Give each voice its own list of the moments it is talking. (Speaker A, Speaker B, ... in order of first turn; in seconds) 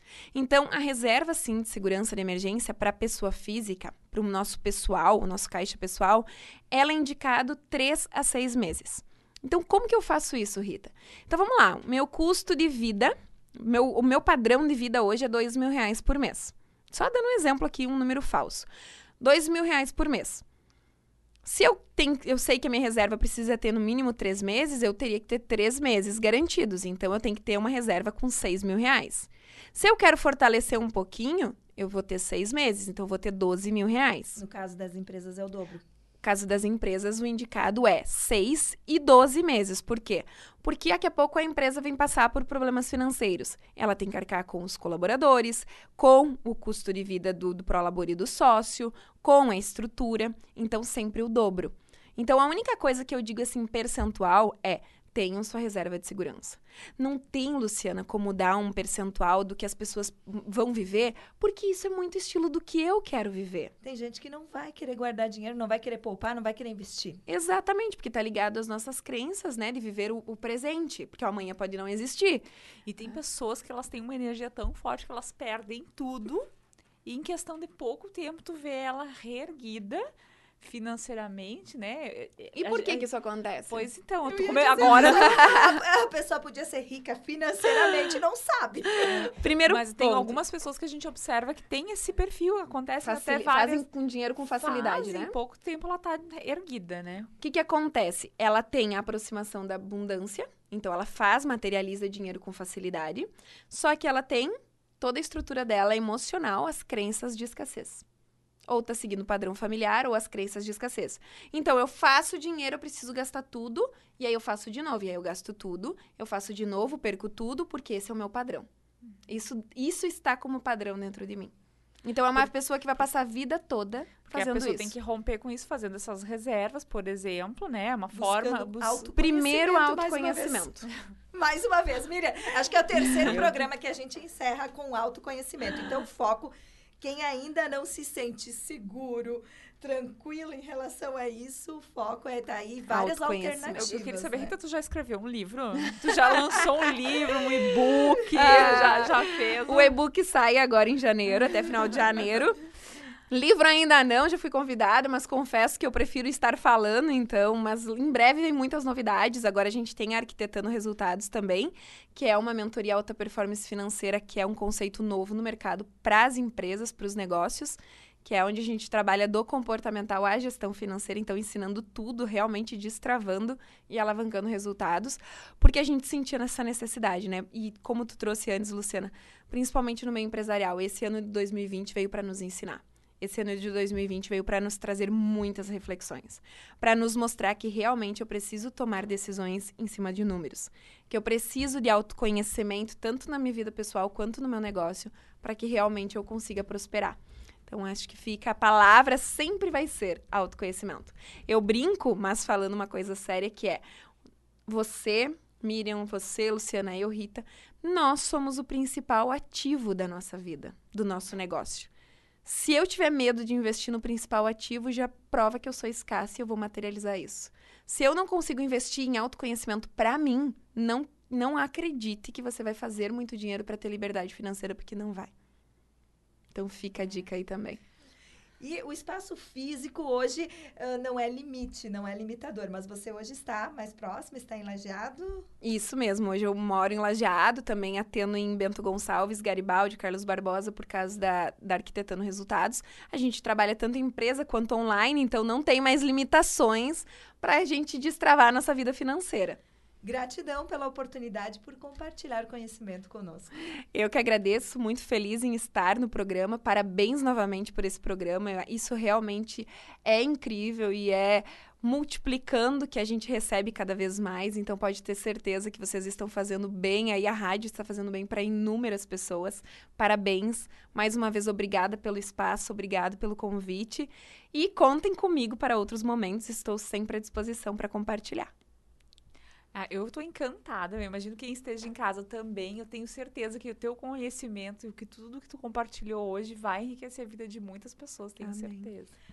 Speaker A: 0.3-18.7, 19.2-20.4, 21.4-34.4, 36.2-63.7, 67.3-72.5, 82.5-83.9, 84.8-85.8, 89.0-90.4, 93.0-95.4, 97.4-108.0, 108.7-118.7, 119.3-121.5, 122.0-124.9, 129.2-130.9, 142.9-143.9, 146.3-146.7, 148.3-152.6, 153.3-203.8, 204.7-211.9, 212.4-225.3, 226.5-227.8, 235.6-249.6, 253.9-278.5
Speaker B: 34.4-35.8, 63.8-67.2, 84.3-89.3, 128.1-130.7, 131.3-144.6, 228.6-235.5, 250.0-253.5, 288.4-288.9
Speaker C: 72.9-76.5, 77.0-80.0, 80.6-83.1, 83.7-85.6, 89.0-93.8, 94.6-97.3, 124.3-129.1, 143.7-149.9, 279.7-289.1